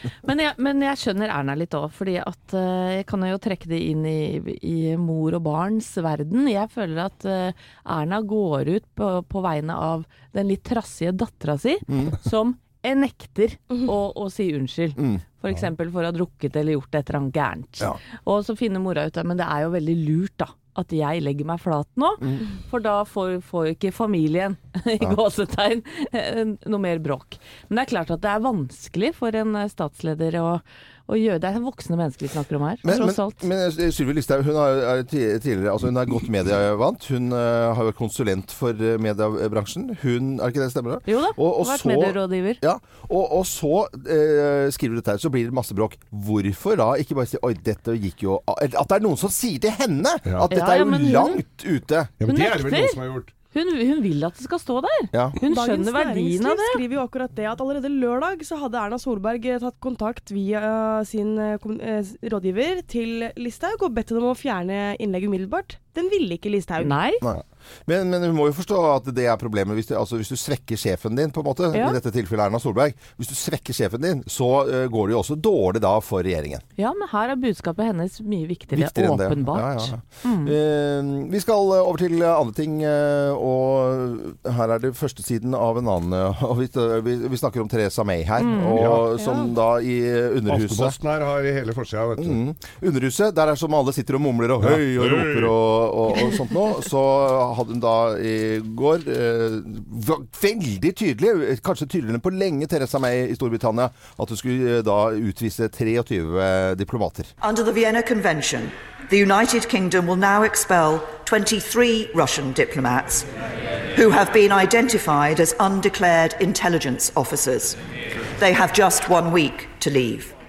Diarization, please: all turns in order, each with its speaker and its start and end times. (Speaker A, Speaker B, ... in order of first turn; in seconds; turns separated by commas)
Speaker A: 0.2-33.4, Speaker B: 11.9-12.2, Speaker B: 15.0-15.2, Speaker B: 22.2-22.4, Speaker B: 32.8-52.1, Speaker A: 41.1-42.6, Speaker A: 50.5-51.4, Speaker C: 52.2-53.3, Speaker A: 52.3-53.0, Speaker A: 53.5-56.8, Speaker B: 55.1-55.4, Speaker D: 55.4-67.0, Speaker A: 66.8-67.2, Speaker B: 67.2-76.6, Speaker A: 71.7-72.0, Speaker A: 76.8-80.5, Speaker B: 78.7-91.0, Speaker A: 88.4-88.8, Speaker C: 88.8-89.1, Speaker C: 90.5-92.4, Speaker B: 92.2-107.3, Speaker C: 94.6-95.5, Speaker E: 107.4-113.3, Speaker E: 114.0-117.8, Speaker E: 118.4-120.3